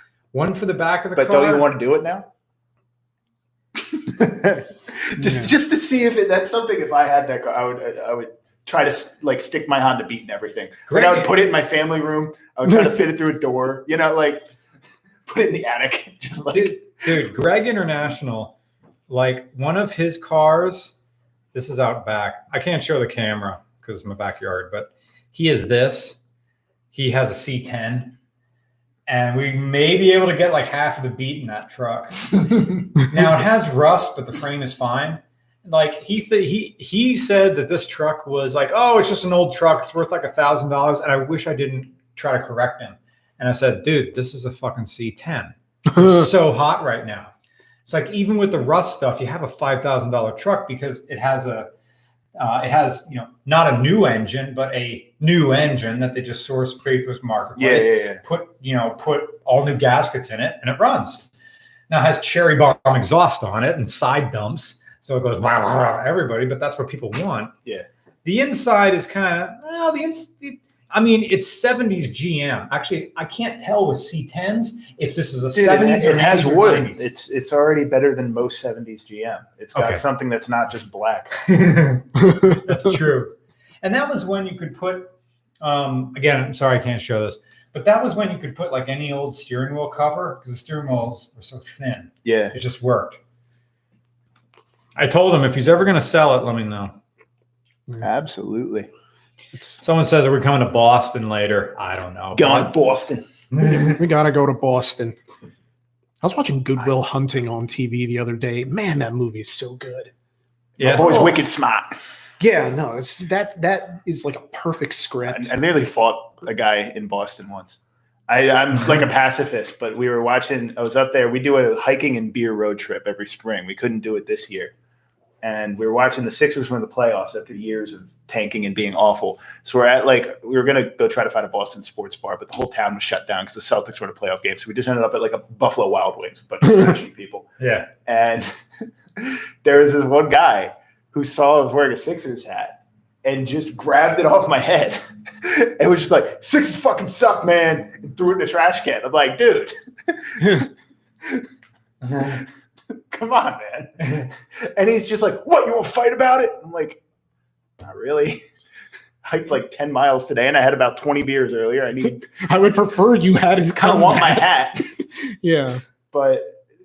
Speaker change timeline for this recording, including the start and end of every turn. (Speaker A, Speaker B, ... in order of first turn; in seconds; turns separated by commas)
Speaker A: 0.3-1.7, Speaker B: 1.1-2.3, Speaker B: 3.9-14.4, Speaker C: 5.2-5.5, Speaker A: 10.9-11.3, Speaker B: 15.3-16.8, Speaker A: 16.5-18.5, Speaker A: 19.1-20.9, Speaker A: 21.5-26.2, Speaker A: 26.9-28.2, Speaker A: 29.1-47.3, Speaker A: 47.9-51.7, Speaker A: 52.4-61.3, Speaker B: 57.6-58.2, Speaker A: 61.9-67.5, Speaker A: 68.2-77.1, Speaker B: 75.5-81.4, Speaker A: 79.8-80.0, Speaker A: 81.4-93.2, Speaker B: 92.2-92.5, Speaker A: 95.0-97.0, Speaker B: 98.0-98.9, Speaker C: 99.5-99.8, Speaker A: 99.8-102.7, Speaker B: 102.3-103.8, Speaker A: 103.5-104.0, Speaker C: 103.8-105.2, Speaker C: 106.2-110.1, Speaker B: 110.8-111.9, Speaker A: 110.8-111.3, Speaker C: 110.9-111.4, Speaker C: 112.4-115.5, Speaker B: 115.3-124.7, Speaker B: 125.4-150.7, Speaker A: 137.6-137.9, Speaker B: 152.0-157.0, Speaker B: 157.8-158.4, Speaker B: 159.2-162.2, Speaker C: 162.1-165.8, Speaker B: 163.7-164.9, Speaker B: 166.1-166.6